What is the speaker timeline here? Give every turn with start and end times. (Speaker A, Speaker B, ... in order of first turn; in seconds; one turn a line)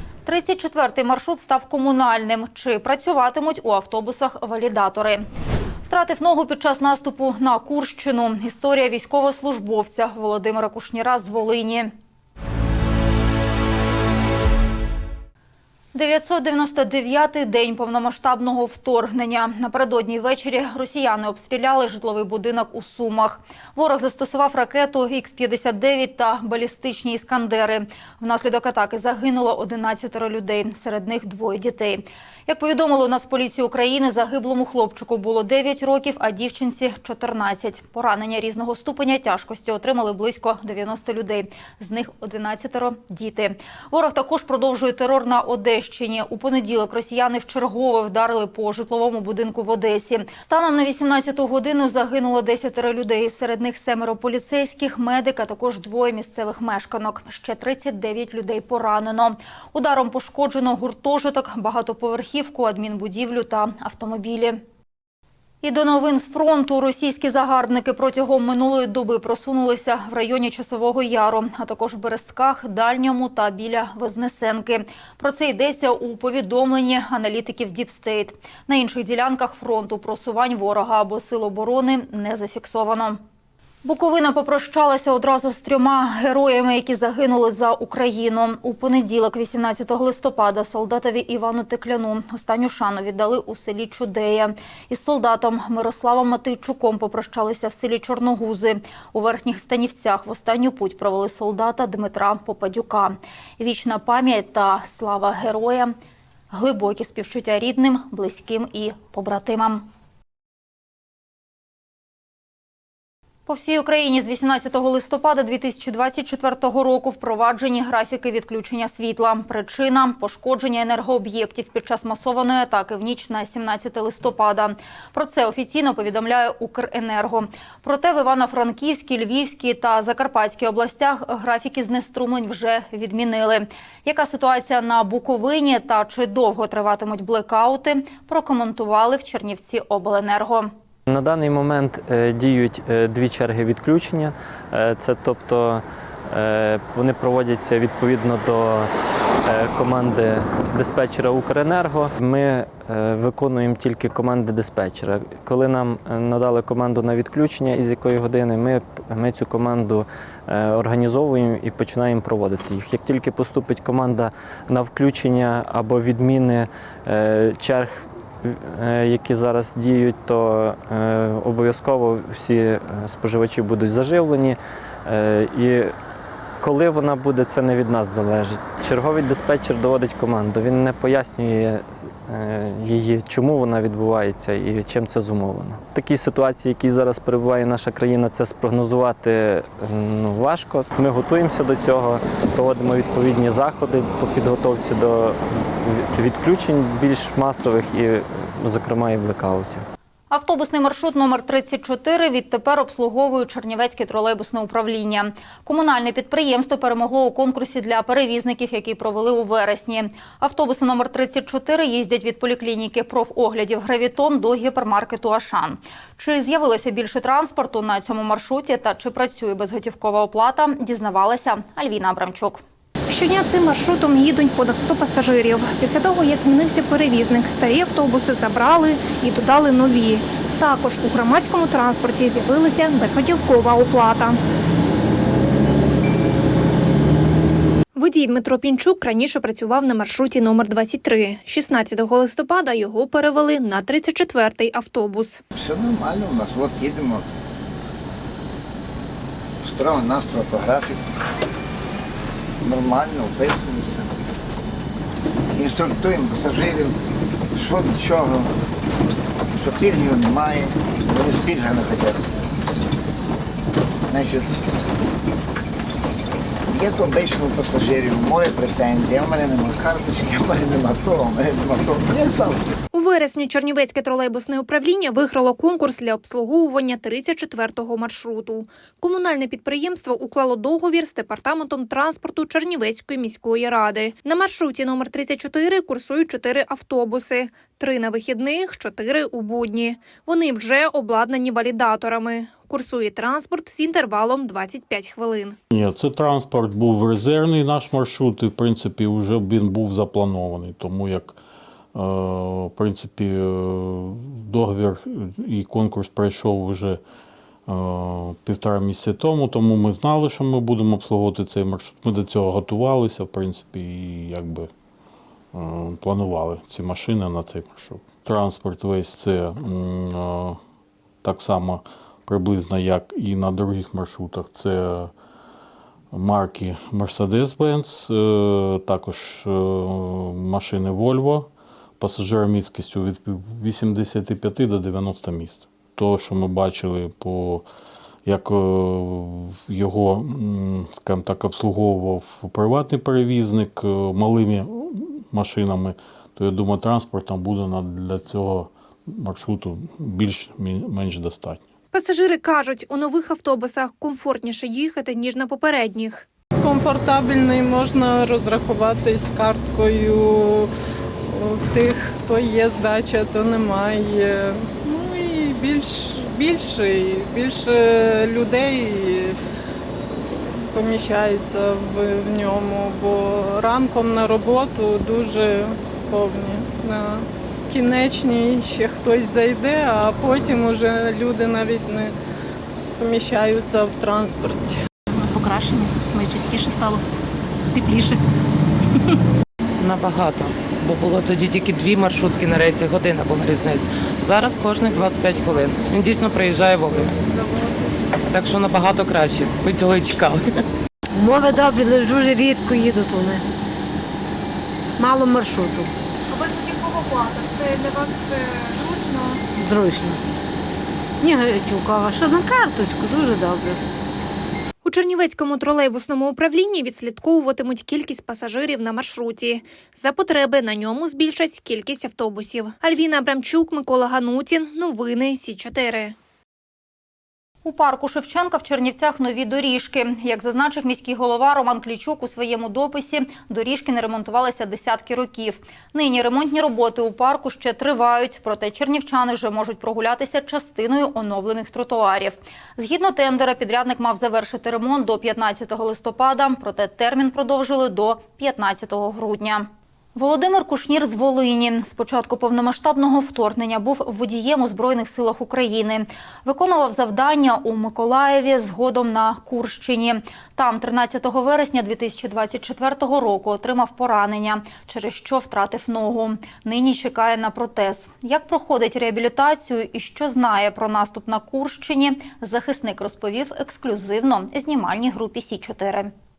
Speaker A: 0.2-5.2
Speaker A: 5.8-11.9
Speaker A: 15.9-64.6
Speaker A: 65.6-83.2
Speaker A: 83.8-105.9
Speaker A: 106.5-109.9
Speaker A: 113.5-140.7
Speaker B: 141.1-148.9
Speaker B: 149.4-175.9
Speaker B: 176.6-199.8
Speaker A: 200.3-222.6
Speaker C: 223.1-234.4
Speaker C: 237.9-245.4
Speaker D: 245.6-247.2
Speaker D: 249.6-251.0
Speaker D: 252.6-254.1
Speaker D: 255.5-257.0
Speaker D: 257.5-258.5
Speaker D: 259.5-262.2
Speaker D: 264.1-264.6
Speaker D: 266.7-272.7
Speaker C: 272.9-295.6
Speaker E: 295.7-301.4
Speaker E: 301.9-307.0
Speaker E: 307.7-314.7
Speaker E: 315.5-320.6
Speaker E: 321.2-325.1
Speaker E: 326.1-337.6
Speaker E: 338.2-351.7
Speaker C: 351.9-356.2
Speaker F: 356.6-360.7
Speaker F: 361.3-369.4
Speaker F: 370.6-382.1
Speaker F: 383.0-384.8
Speaker G: 385.3-387.0
Speaker G: 387.8-388.1
Speaker H: 389.8-397.1
Speaker F: 397.2-398.0
Speaker H: 398.3-400.6
Speaker I: 401.1-403.4
Speaker I: 405.0-405.9
Speaker C: 406.5-408.6
Speaker I: 409.6-410.2
Speaker I: 411.2-413.8
Speaker C: 414.8-426.1
Speaker A: 427.6-476.1